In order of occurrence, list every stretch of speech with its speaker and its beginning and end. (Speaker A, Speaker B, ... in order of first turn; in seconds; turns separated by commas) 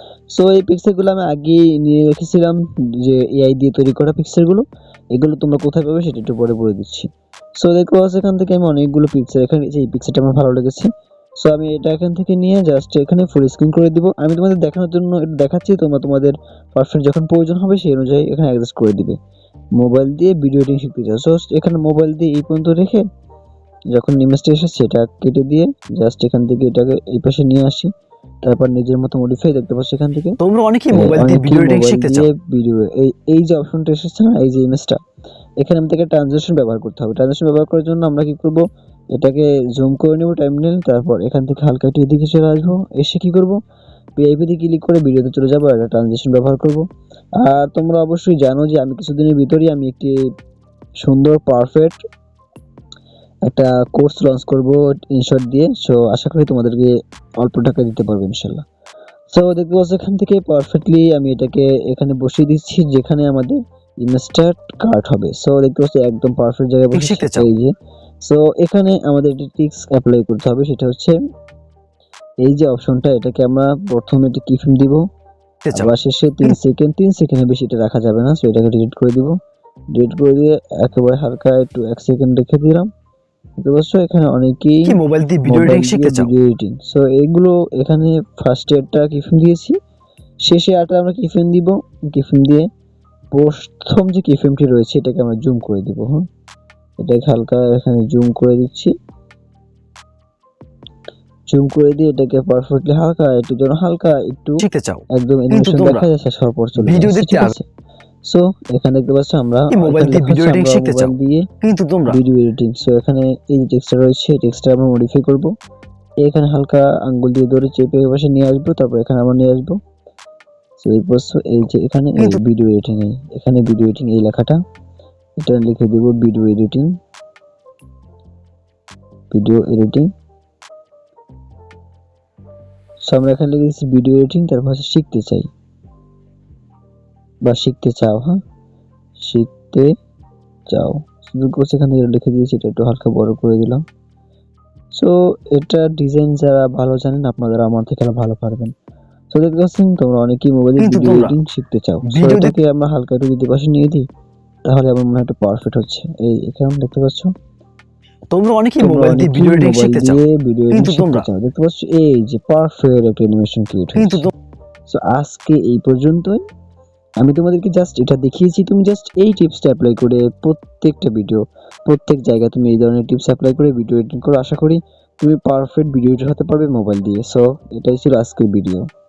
Speaker A: 0.3-7.1, Speaker A: 7.6-10.9, Speaker A: 11.4-19.2, Speaker A: 19.8-23.0, Speaker A: 23.9-27.9, Speaker A: 28.4-30.3, Speaker B: 30.4-32.3, Speaker A: 30.9-35.0, Speaker A: 35.6-38.6, Speaker A: 39.1-43.6, Speaker A: 44.2-46.8, Speaker A: 47.4-50.2, Speaker A: 51.0-52.0, Speaker A: 53.5-58.6, Speaker A: 59.3-67.7, Speaker B: 66.9-67.5, Speaker A: 68.2-71.1, Speaker A: 72.4-75.0, Speaker B: 75.6-75.9, Speaker A: 75.7-79.3, Speaker A: 79.9-82.9, Speaker A: 83.6-89.8, Speaker B: 84.8-86.3, Speaker A: 90.5-92.7, Speaker A: 93.3-96.2, Speaker A: 97.0-98.9, Speaker A: 101.5-107.6, Speaker B: 104.6-106.0, Speaker B: 106.8-107.5, Speaker A: 108.3-111.5, Speaker B: 109.7-112.2, Speaker A: 112.1-115.5, Speaker A: 116.2-119.8, Speaker A: 120.8-124.6, Speaker A: 125.4-126.9, Speaker A: 129.3-130.1, Speaker A: 133.1-135.5, Speaker A: 137.4-138.4, Speaker A: 139.2-139.9, Speaker A: 140.7-143.8, Speaker A: 145.0-148.7, Speaker A: 149.3-154.0, Speaker B: 150.8-151.3, Speaker B: 152.0-152.5, Speaker A: 154.6-157.3, Speaker B: 158.3-161.3, Speaker A: 158.8-164.3, Speaker B: 163.9-164.3, Speaker A: 164.9-166.4, Speaker A: 167.2-178.9